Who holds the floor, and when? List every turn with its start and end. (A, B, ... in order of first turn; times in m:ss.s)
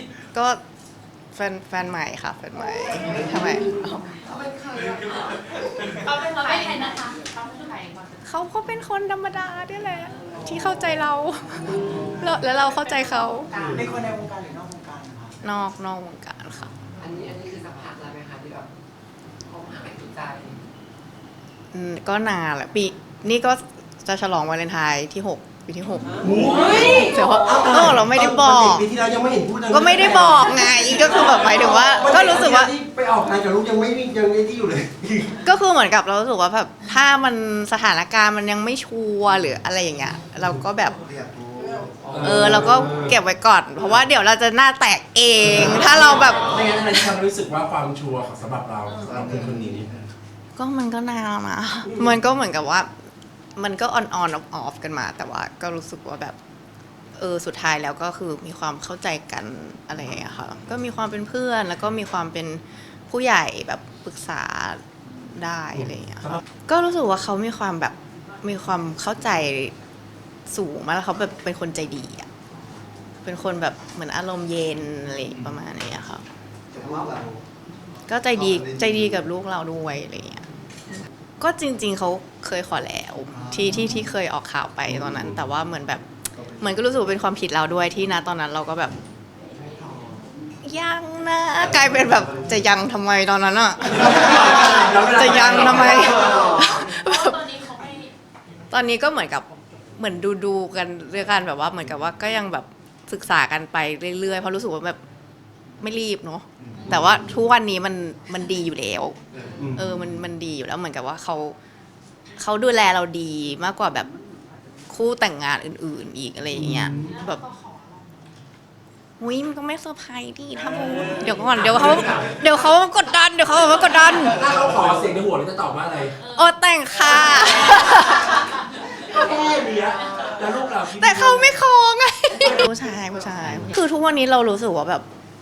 0:00.3-0:00.6 A
0:01.3-0:04.2 A
0:03.0-0:03.6 B
0:04.2-0:05.6 C
0:06.0-0:08.2 B
0:08.2-0:13.6 A
0:13.6-0:13.8 B
0:13.6-0:14.1 D
0:13.8-0:15.3 E
0:15.4-0:16.7 A
0:17.0-0:18.7 C
0:19.5-0:20.6 C
0:21.7-0:28.9 A
0:26.2-0:27.6 C
0:26.2-0:35.3 D
0:29.7-0:32.7 A
0:33.5-0:35.0 E
0:35.4-0:41.0 A
0:41.1-0:42.3 E
0:42.1-0:43.2 D
0:42.2-0:46.6 A
0:45.5-0:50.1 D
0:49.1-0:49.6 E
0:50.6-0:52.9 A
0:53.6-0:56.4 A
0:57.2-1:09.7 A
1:10.5-1:12.3 A
1:13.2-1:16.2 A
1:16.7-1:17.4 E
1:18.1-1:20.5 A
1:21.4-1:26.0 A
1:26.6-1:29.0 A
1:30.6-1:37.4 A
1:34.6-1:36.1 D
1:35.6-1:36.7 C
1:36.5-1:38.1 B
1:38.7-1:45.0 A
1:45.8-1:49.2 A
1:49.6-1:49.9 D
1:49.7-1:51.6 A
1:52.4-1:54.1 A
1:54.9-1:57.4 A
1:56.6-1:57.2 D
1:57.1-1:58.2 B
1:59.2-2:04.4 A
2:01.9-2:02.3 D
2:04.3-2:06.2 D
2:06.3-2:08.5 A
2:07.4-2:08.1 B
2:09.0-2:11.6 D
2:10.9-2:15.0 A
2:12.4-2:12.6 D